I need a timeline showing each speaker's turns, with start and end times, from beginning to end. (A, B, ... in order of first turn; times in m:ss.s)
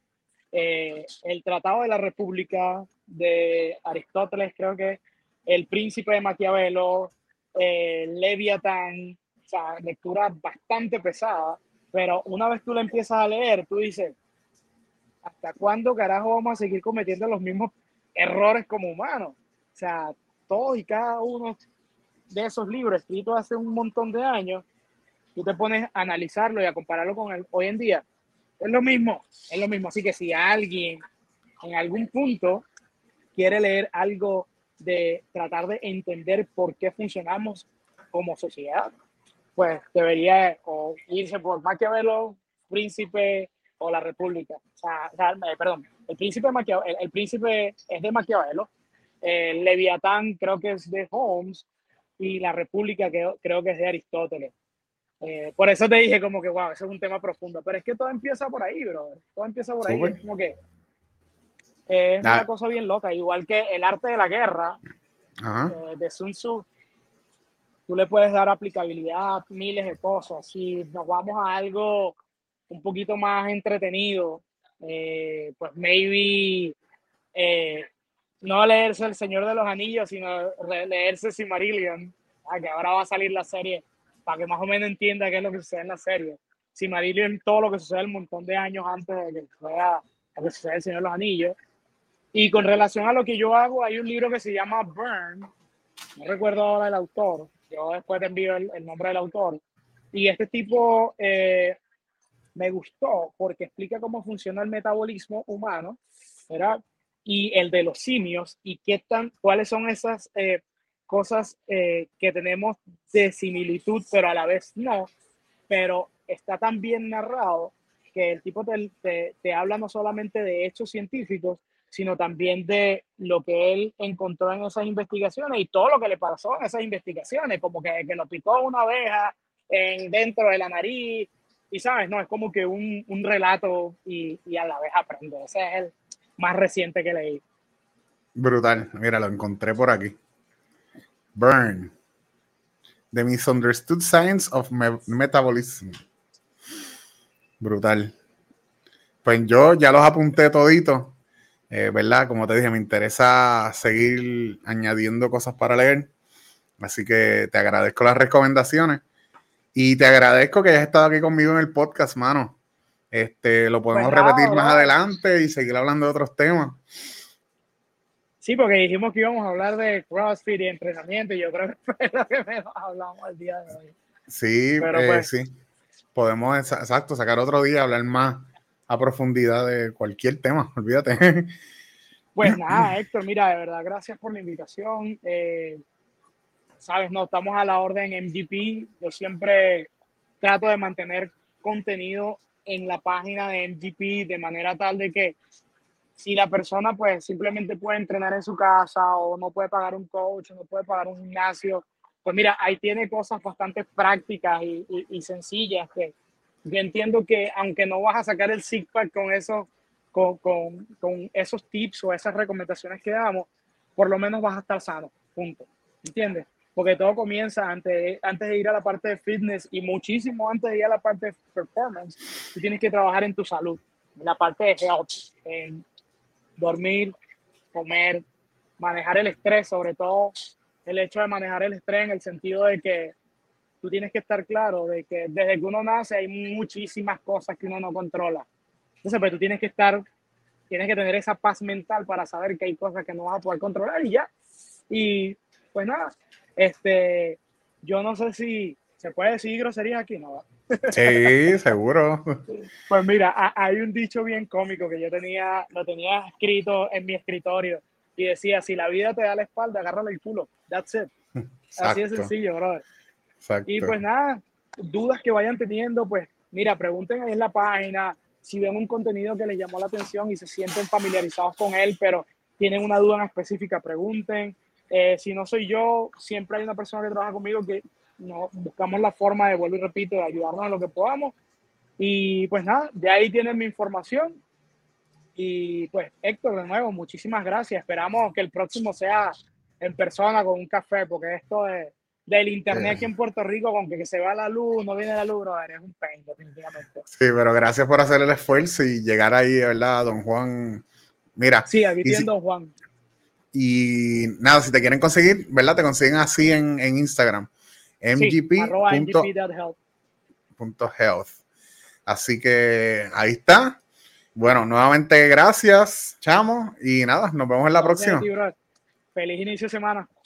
0:00.5-0:14.2 A
0:15.2-0:21.6 A
0:22.3-0:24.6 A
0:25.4-0:28.0 A
0:28.6-0:31.0 A
0:31.6-0:32.6 A
0:33.4-0:38.9 A
0:39.6-0:48.7 A
0:49.2-0:51.6 A
0:52.2-0:54.5 A
0:55.2-1:00.6 A
0:59.8-1:00.2 B
1:01.9-1:04.8 A
1:05.4-1:05.8 B
1:05.7-1:06.6 A
1:07.9-1:12.2 A
1:12.7-1:16.8 A
1:17.3-1:17.9 A
1:18.4-1:31.6 A
1:32.3-1:35.5 A
1:36.2-1:39.6 A
1:40.1-1:41.8 A
1:42.6-1:55.1 A
1:55.7-2:17.4 A
2:18.4-2:20.2 B
2:21.3-2:21.9 B
2:23.1-2:25.9 B
2:27.6-2:28.1 B
2:29.2-2:31.2 B
2:31.7-2:36.1 B
2:36.8-2:39.0 B
2:39.7-2:42.6 B
2:43.1-2:46.8 B
2:43.9-2:44.9 A
2:48.4-2:53.9 A
2:54.3-2:55.5 B
2:54.8-2:55.3 A
2:56.1-3:01.5 B
3:02.3-3:05.8 A
3:02.4-3:02.8 B
3:06.8-3:09.9 A
3:10.4-3:15.4 A
3:16.2-3:45.8 A
3:46.6-3:47.1 A
3:47.7-3:48.2 A
3:48.8-3:50.3 A
3:50.8-3:53.1 A
3:53.8-3:58.4 A
3:59.0-4:00.0 A
4:00.7-4:04.3 A
4:04.9-4:11.3 A
4:10.9-4:12.4 B
4:12.9-4:21.1 A
4:21.4-4:22.3 B
4:21.7-4:22.8 A
4:23.4-4:24.0 B
4:23.7-4:41.3 A
4:42.0-4:44.4 A
4:45.4-4:57.0 A
4:52.7-4:53.0 B
4:57.1-5:00.8 B
5:01.4-5:02.3 B
5:01.7-5:02.7 A
5:03.5-5:07.5 B
5:08.0-5:09.3 B
5:08.1-5:09.8 A
5:10.6-5:11.4 B
5:12.0-5:13.8 B
5:14.4-5:18.3 B
5:17.7-5:18.5 A
5:19.1-5:20.1 A